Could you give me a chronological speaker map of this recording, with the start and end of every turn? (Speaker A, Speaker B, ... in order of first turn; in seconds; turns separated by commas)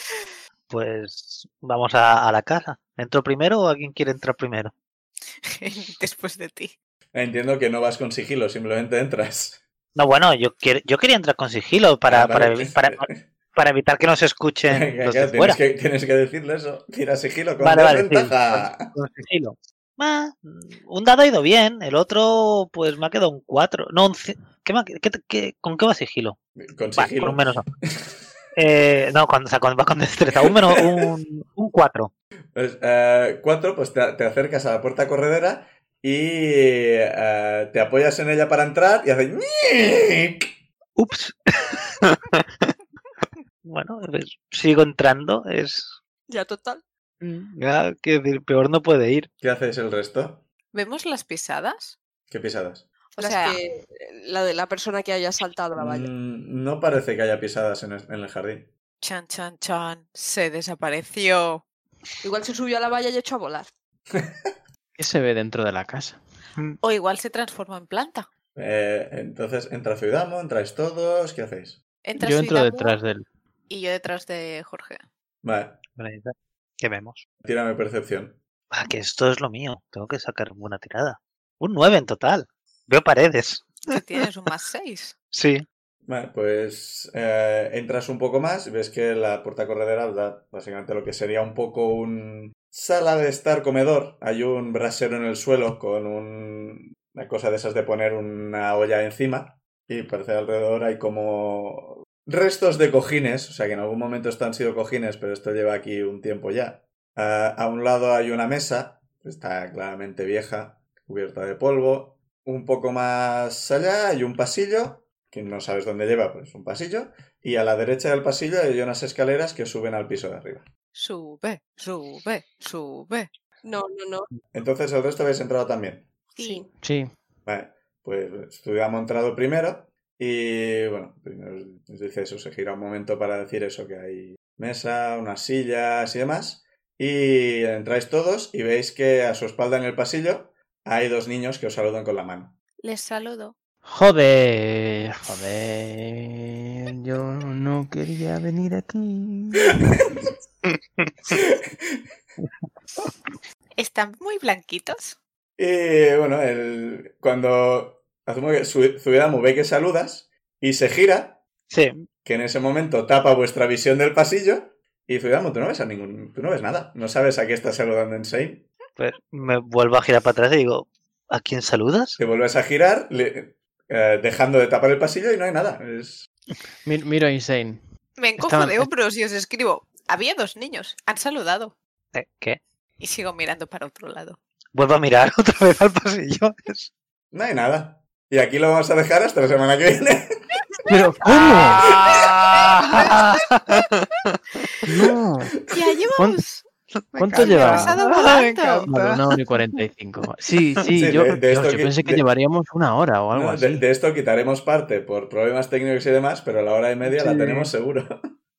Speaker A: 0.7-4.7, Speaker B: 5.4-6.8, Speaker C: 7.1-9.6, Speaker A: 9.9-15.6, Speaker C: 12.1-13.2, Speaker C: 14.7-18.9, Speaker A: 17.6-26.4, Speaker C: 26.6-28.2, Speaker A: 27.0-27.7, Speaker A: 28.6-32.1, Speaker C: 30.4-31.1, Speaker C: 32.5-40.5, Speaker A: 41.0-42.7, Speaker A: 43.6-46.0, Speaker D: 46.3-46.8, Speaker A: 47.2-49.3, Speaker C: 49.4-50.4, Speaker B: 50.7-52.0, Speaker C: 52.3-52.9, Speaker B: 53.2-53.6, Speaker D: 53.2-56.1, Speaker C: 55.8-58.7, Speaker B: 59.0-61.6, Speaker D: 62.2-63.7, Speaker C: 64.1-64.5, Speaker E: 65.0-66.2, Speaker B: 66.8-68.3, Speaker C: 68.6-71.8, Speaker B: 72.0-73.0, Speaker E: 72.2-73.3, Speaker B: 73.7-75.0, Speaker C: 75.4-75.8, Speaker A: 76.0-77.2, Speaker C: 77.4-78.4, Speaker A: 78.7-84.0, Speaker B: 83.9-85.2, Speaker A: 85.3-85.6, Speaker C: 86.1-120.7, Speaker B: 121.0-123.3, Speaker D: 123.6-124.3, Speaker C: 124.5-126.1, Speaker B: 126.3-126.6, Speaker D: 126.4-126.7, Speaker E: 126.8-127.1, Speaker C: 127.5-142.5, Speaker B: 142.8-143.5, Speaker E: 143.9-149.8, Speaker C: 150.0-150.3, Speaker A: 151.0-151.3, Speaker C: 151.3-152.0, Speaker B: 153.8-155.2, Speaker C: 155.6-161.4, Speaker A: 161.7-162.1, Speaker C: 162.2-168.7, Speaker A: 169.0-172.2, Speaker C: 172.2-176.3, Speaker E: 176.8-177.8, Speaker B: 178.2-181.8, Speaker E: 178.4-178.9, Speaker A: 182.1-182.6, Speaker B: 183.0-184.4, Speaker A: 184.7-186.9, Speaker C: 187.3-190.3, Speaker E: 190.9-191.9, Speaker A: 191.2-194.4, Speaker C: 191.9-192.2, Speaker B: 192.9-193.4, Speaker E: 194.8-195.6, Speaker B: 195.7-196.7, Speaker A: 197.1-199.2, Speaker E: 197.2-198.0, Speaker B: 197.3-198.9, Speaker E: 198.9-203.8, Speaker C: 200.9-202.2, Speaker C: 203.3-208.3, Speaker A: 207.1-207.7